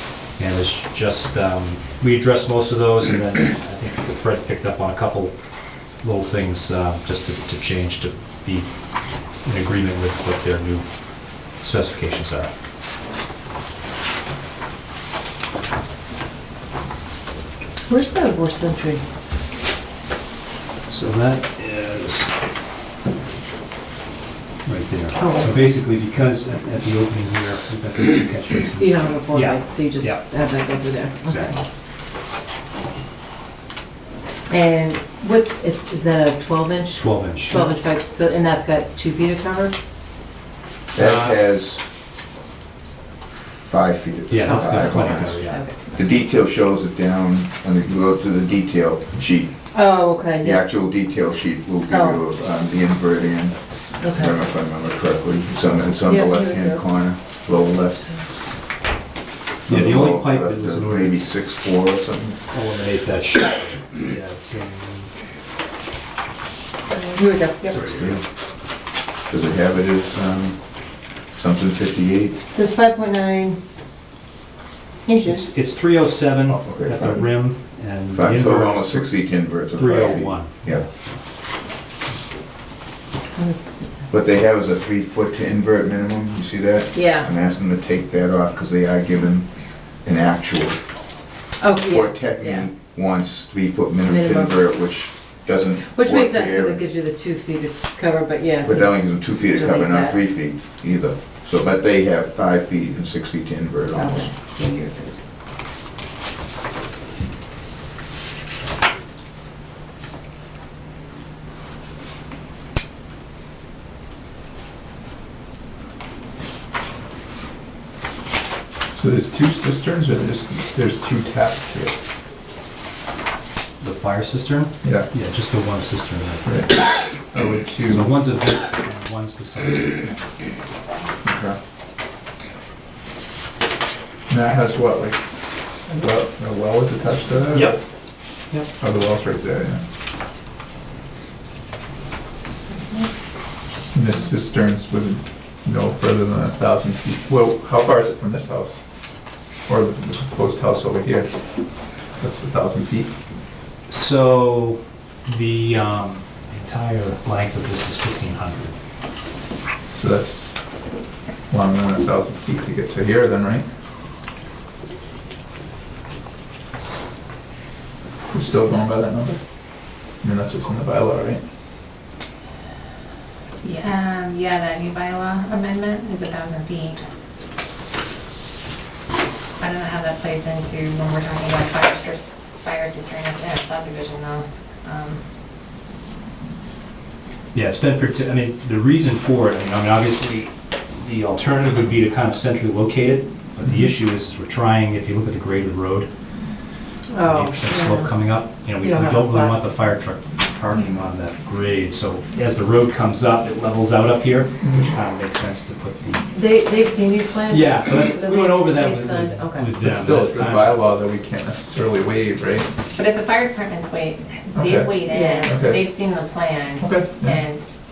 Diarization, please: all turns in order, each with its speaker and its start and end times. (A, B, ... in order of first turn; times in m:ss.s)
0:00.4-0:05.3 A
0:06.0-0:08.7 A
0:09.4-0:10.9 A
0:11.6-0:12.5 A
0:17.9-0:19.0 B
0:20.9-0:22.3 A
0:24.6-0:30.2 A
0:25.2-0:25.5 B
0:28.8-0:31.5 B
0:34.5-0:39.7 B
0:37.0-0:37.7 A
0:40.9-0:41.8 C
0:41.0-0:41.4 A
0:43.4-0:49.7 C
0:44.3-0:45.6 A
0:44.4-0:45.9 B
0:49.7-0:50.6 B
0:50.4-0:58.1 C
0:51.9-0:52.2 B
0:54.0-0:54.3 B
0:56.0-0:56.8 B
0:57.6-0:58.2 B
0:59.7-1:01.2 A
0:59.7-1:02.4 C
1:02.5-1:05.1 A
1:06.9-1:07.9 B
1:07.7-1:08.2 A
1:07.9-1:08.2 C
1:09.3-1:10.8 C
1:11.3-1:12.4 C
1:12.5-1:13.6 B
1:15.1-1:15.6 B
1:15.2-1:20.8 A
1:16.5-1:17.3 C
1:18.1-1:20.9 C
1:23.4-1:23.9 B
1:24.1-1:30.8 C
1:26.9-1:27.3 B
1:31.6-1:32.7 B
1:31.7-1:36.8 C
1:34.1-1:34.8 B
1:35.8-1:40.2 B
1:38.6-1:44.4 C
1:43.9-1:45.2 B
1:58.9-2:02.0 D
2:03.8-2:06.9 A
2:04.8-2:05.1 D
2:06.4-2:08.1 D
2:07.8-2:10.1 A
2:11.2-2:11.6 D
2:14.3-2:15.2 D
2:15.8-2:17.8 D
2:17.5-2:17.8 A
2:18.8-2:19.8 D
2:23.9-2:28.8 D
2:29.6-2:31.3 D
2:32.1-2:33.1 D
2:33.9-2:38.8 A
2:39.9-2:40.6 D
2:41.5-2:43.7 D
2:48.3-2:49.4 D
2:50.0-2:51.4 D
2:53.6-2:57.0 E
2:59.6-3:05.2 E
3:07.5-3:16.1 A
3:17.1-3:18.1 B
3:17.2-3:26.3 A
3:18.8-3:19.7 B
3:24.6-3:25.0 D
3:26.3-3:29.7 B
3:27.5-3:30.9 A
3:29.8-3:32.7 D
3:33.0-3:37.7 E
3:34.5-3:35.8 D
3:35.0-3:35.5 B
3:36.8-3:37.4 D